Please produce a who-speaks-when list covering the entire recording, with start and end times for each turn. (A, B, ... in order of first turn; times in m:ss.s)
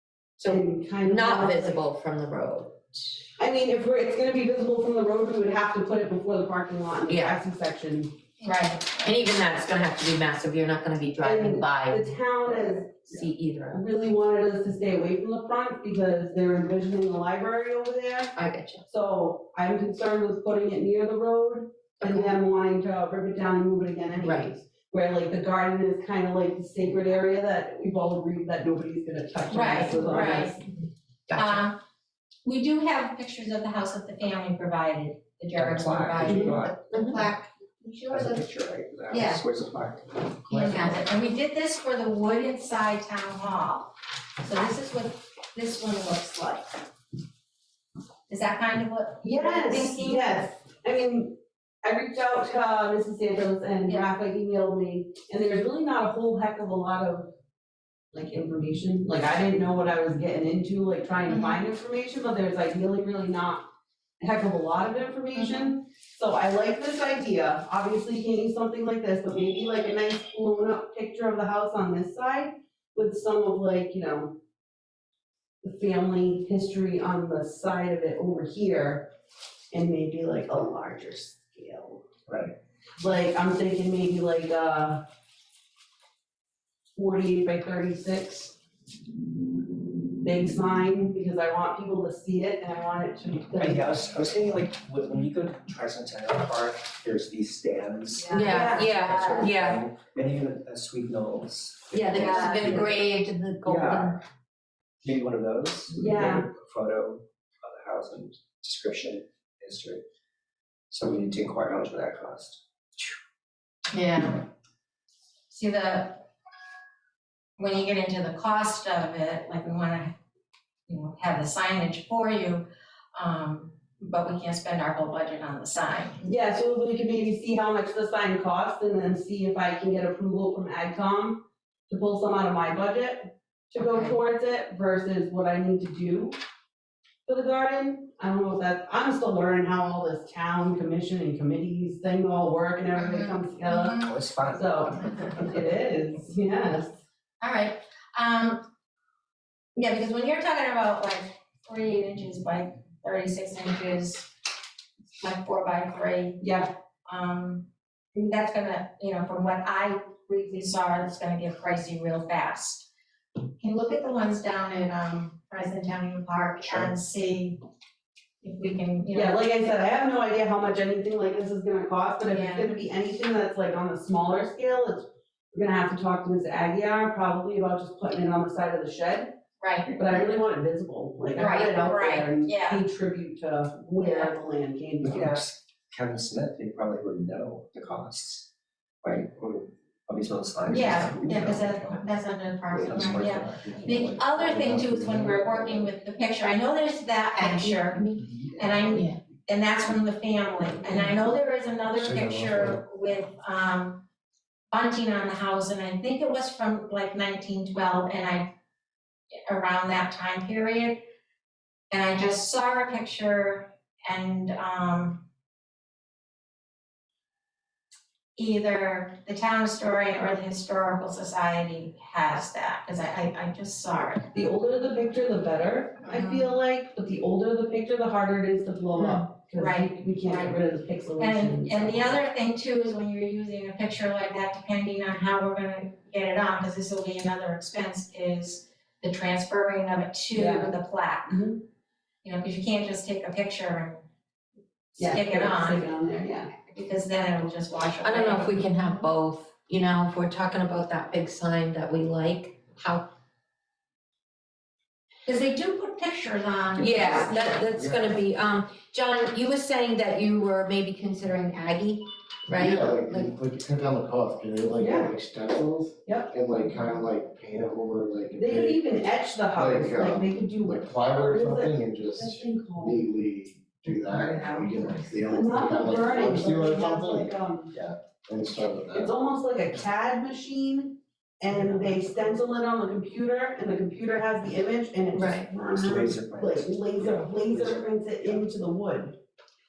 0:00.4-0:03.0 A
0:00.4-0:01.8 B
0:03.4-0:08.1 B
0:07.1-0:07.4 A
0:08.4-0:09.1 C
0:09.0-0:13.8 A
0:11.2-0:13.0 B
0:13.7-0:18.4 B
0:18.4-0:18.8 A
0:18.9-0:30.6 B
0:22.0-0:22.3 A
0:29.5-0:30.5 C
0:30.1-0:30.5 A
0:31.3-0:31.7 A
0:31.4-0:31.8 C
0:32.4-0:37.5 C
0:35.6-0:37.3 D
0:36.3-0:37.3 A
0:38.1-0:40.4 D
0:38.1-0:38.4 A
0:39.1-0:39.4 C
0:40.5-0:41.0 E
0:40.5-0:46.8 C
0:48.3-0:50.5 C
0:49.2-0:57.3 B
0:58.1-1:03.7 B
1:01.3-1:01.6 C
1:04.2-1:14.4 B
1:05.4-1:05.7 C
1:15.6-1:19.1 B
1:19.7-1:22.0 B
1:22.3-1:22.5 D
1:23.0-1:25.0 B
1:27.0-1:28.6 B
1:30.2-1:34.0 B
1:33.6-1:43.1 D
1:38.2-1:39.4 B
1:38.3-1:38.7 C
1:38.3-1:39.8 A
1:41.9-1:44.2 A
1:42.2-1:42.6 C
1:42.3-1:42.6 B
1:43.6-1:44.2 D
1:45.0-1:50.0 D
1:45.9-1:46.5 B
1:50.9-1:53.1 D
1:53.9-1:54.5 C
1:55.5-1:56.2 C
1:57.6-2:00.1 C
2:00.9-2:06.3 C
2:06.2-2:16.4 B
2:13.9-2:14.2 C
2:17.3-2:24.0 B
2:23.0-2:24.2 C
2:24.0-2:25.4 D
2:24.5-2:27.0 B
2:25.0-2:25.3 C
2:27.4-2:28.7 C
2:29.8-2:34.3 C
2:35.2-2:36.4 C
2:36.4-2:36.7 B
2:37.1-2:42.9 C
2:43.6-2:47.6 C
2:48.4-2:49.4 C
2:49.1-2:59.3 B
2:52.3-2:52.7 C
2:59.6-3:00.0 C
2:59.9-3:05.4 B
3:01.4-3:02.8 C
3:04.0-3:04.3 C
3:05.0-3:08.5 D
3:09.0-3:12.0 D
3:10.7-3:18.0 C
3:11.2-3:11.6 E
3:12.7-3:15.9 E
3:12.8-3:14.1 D
3:17.4-3:18.2 A
3:18.6-3:24.0 C
3:22.0-3:22.8 E
3:24.7-3:28.5 C
3:29.5-3:31.0 C
3:31.9-3:35.2 C
3:38.4-3:44.3 C
3:44.3-3:52.2 B
3:46.1-3:46.6 C
3:48.9-3:49.3 A
3:49.6-3:50.6 C
3:51.2-4:01.4 C
4:00.3-4:00.8 B
4:01.3-4:01.6 B
4:02.2-4:04.0 C
4:04.9-4:05.9 C
4:05.0-4:06.5 B
4:06.6-4:09.0 C
4:08.0-4:13.1 A
4:15.3-4:17.6 C
4:16.8-4:23.3 A
4:16.9-4:18.2 E
4:22.5-4:28.8 E
4:24.8-4:25.1 B
4:26.1-4:26.3 B
4:28.4-4:33.1 B
4:29.5-4:39.1 E
4:34.2-4:37.8 B
4:38.9-4:49.2 B
4:45.1-4:45.5 A
4:45.8-4:48.4 D